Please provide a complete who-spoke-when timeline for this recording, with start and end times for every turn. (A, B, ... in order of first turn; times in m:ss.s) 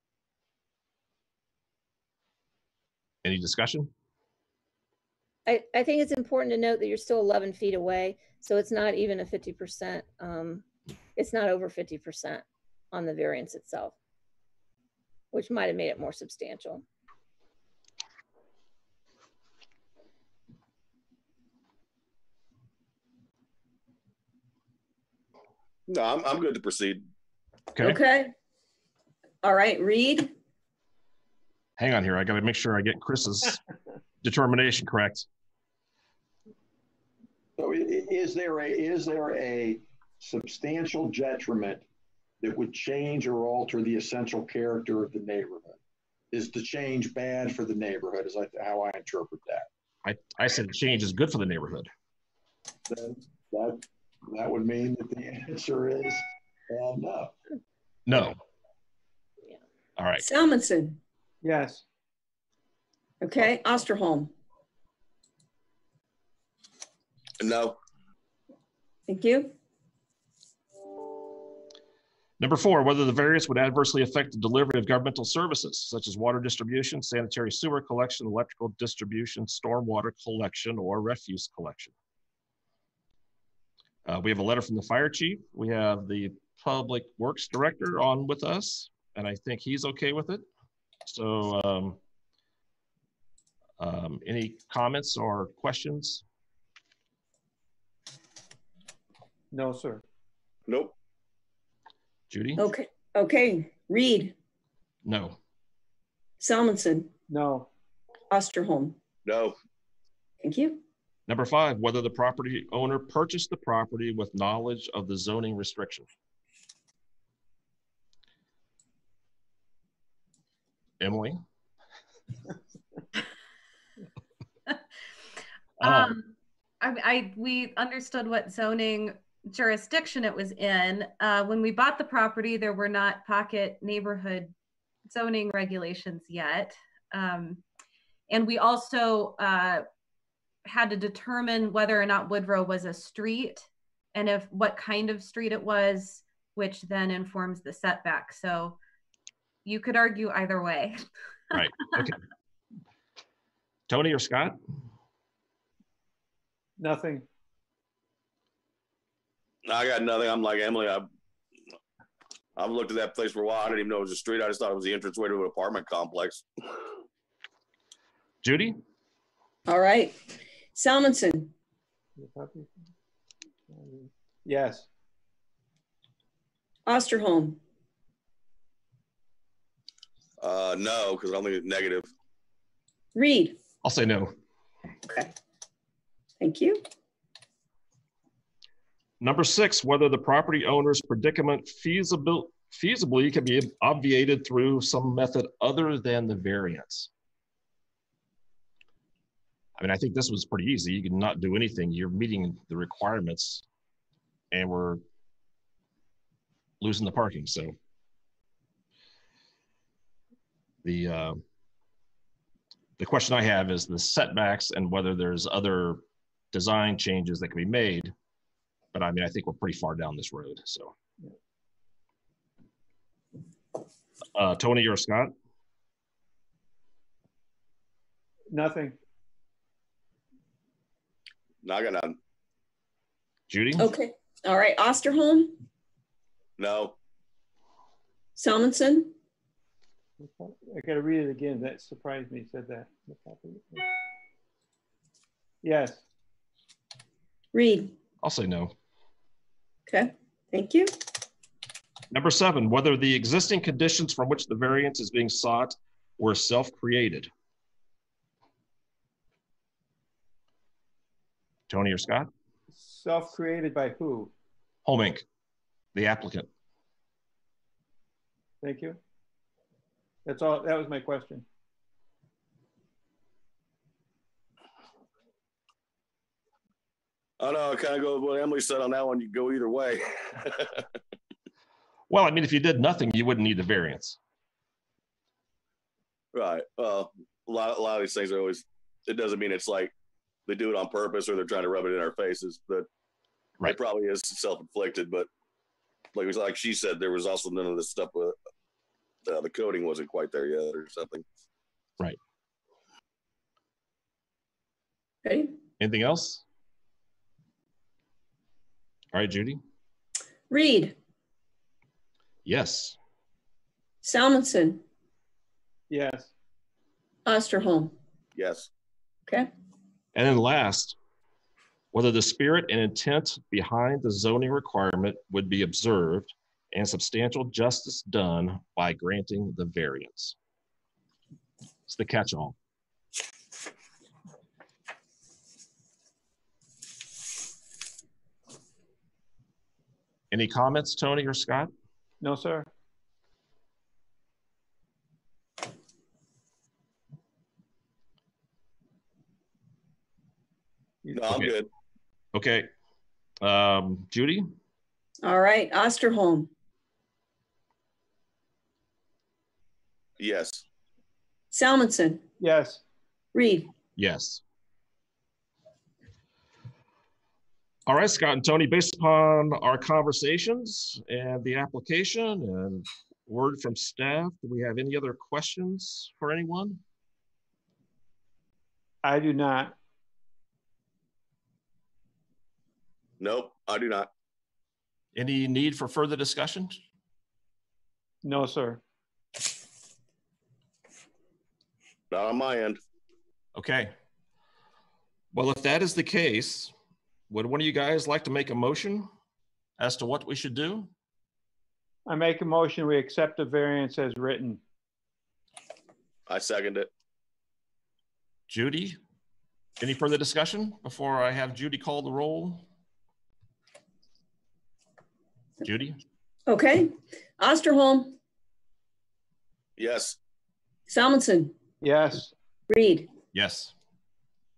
0:03.2-0:03.9 A
0:05.5-0:10.6 B
0:11.2-0:14.0 B
0:15.3-0:16.8 B
0:25.9-0:27.0 C
0:27.8-0:28.3 D
0:29.4-0:30.3 D
0:31.8-0:33.6 A
0:34.2-0:35.3 A
0:37.6-0:41.9 E
0:42.4-0:45.8 E
0:46.3-0:49.7 E
0:50.0-0:51.9 A
0:52.9-0:57.4 E
0:58.1-0:58.4 A
1:00.0-1:00.2 A
1:00.2-1:01.0 D
1:01.4-1:01.8 F
1:03.2-1:04.3 D
1:07.4-1:07.8 C
1:09.1-1:09.5 D
1:12.4-1:21.9 A
1:24.1-1:30.4 A
1:31.1-1:32.0 A
1:33.8-1:36.2 A
1:39.5-1:40.0 F
1:40.7-1:41.0 C
1:42.3-1:42.6 A
1:42.6-1:44.4 D
1:45.0-1:45.4 A
1:46.4-1:47.1 D
1:47.3-1:47.7 F
1:48.3-1:49.0 D
1:49.2-1:49.6 C
1:50.4-1:50.8 D
1:51.3-1:56.1 A
2:01.0-2:01.4 A
2:05.8-2:14.5 G
2:05.8-2:06.2 A
2:15.1-2:17.6 G
2:18.3-2:19.8 G
2:20.6-2:28.8 G
2:29.6-2:32.0 G
2:31.5-2:32.2 A
2:33.9-2:34.6 A
2:36.8-2:37.3 F
2:39.7-2:41.1 C
2:42.6-2:46.4 C
2:48.4-2:48.8 A
2:49.7-2:50.2 D
2:50.7-2:51.5 D
2:52.2-2:52.9 F
2:53.7-2:54.9 F
2:56.9-2:57.6 D
3:00.4-3:02.1 C
3:03.2-3:03.6 D
3:03.8-3:04.3 A
3:05.0-3:05.3 D
3:06.4-3:06.8 D
3:09.2-3:17.1 A
3:19.8-3:23.6 A
3:24.5-3:25.0 A
3:26.8-3:27.7 A
3:30.8-3:31.4 A
3:33.0-3:38.1 A
3:38.9-3:40.9 A
3:44.4-3:45.3 A
3:48.5-3:49.0 F
3:51.6-3:52.2 C
3:53.5-3:53.9 A
3:53.8-3:55.6 D
3:56.6-3:57.0 C
3:58.4-3:59.1 D
4:00.2-4:03.9 F
4:05.6-4:06.0 F
4:07.5-4:08.0 D
4:08.2-4:08.7 A
4:09.9-4:10.9 D
4:12.1-4:17.3 A
4:21.7-4:22.3 A
4:22.7-4:24.3 F
4:24.8-4:25.2 A
4:25.9-4:26.5 A
4:28.6-4:29.0 F
4:30.3-4:31.4 F
4:37.4-4:40.7 C
4:42.1-4:44.2 A
4:46.3-4:49.9 C
4:50.5-4:52.9 C
4:53.6-4:55.3 C
4:56.1-4:58.4 C
4:59.2-5:01.2 C
5:05.2-5:05.6 D
5:05.8-5:06.4 A
5:09.1-5:09.6 A
5:10.5-5:11.0 D
5:12.4-5:13.0 A
5:14.0-5:14.8 D
5:15.9-5:16.3 F
5:17.3-5:18.0 D
5:18.4-5:18.7 C
5:20.2-5:21.0 A
5:21.9-5:30.4 A
5:31.9-5:32.6 A
5:40.3-5:41.7 A
5:42.2-5:42.7 F
5:51.1-5:51.7 C
5:52.3-5:52.7 A
5:53.4-5:54.5 A
5:55.2-5:56.5 D
6:00.2-6:00.6 C
6:01.5-6:02.2 D
6:02.4-6:02.8 F
6:03.3-6:03.7 D
6:04.0-6:04.4 A
6:07.9-6:16.8 A
6:19.0-6:19.8 F
6:23.2-6:24.1 C
6:25.2-6:26.8 A
6:28.2-6:28.8 F
6:32.1-6:32.8 C
6:33.6-6:33.9 A
6:35.3-6:36.7 A
6:37.3-6:39.1 A
6:39.8-6:40.9 A
6:42.1-6:44.6 F
6:46.3-6:46.9 C
6:48.5-6:49.0 A
6:49.8-6:52.6 A
6:55.6-6:56.0 A
6:56.5-6:58.2 D
6:59.8-7:00.2 C
7:00.9-7:01.6 D
7:01.8-7:02.3 F
7:02.7-7:03.1 D
7:03.3-7:03.7 A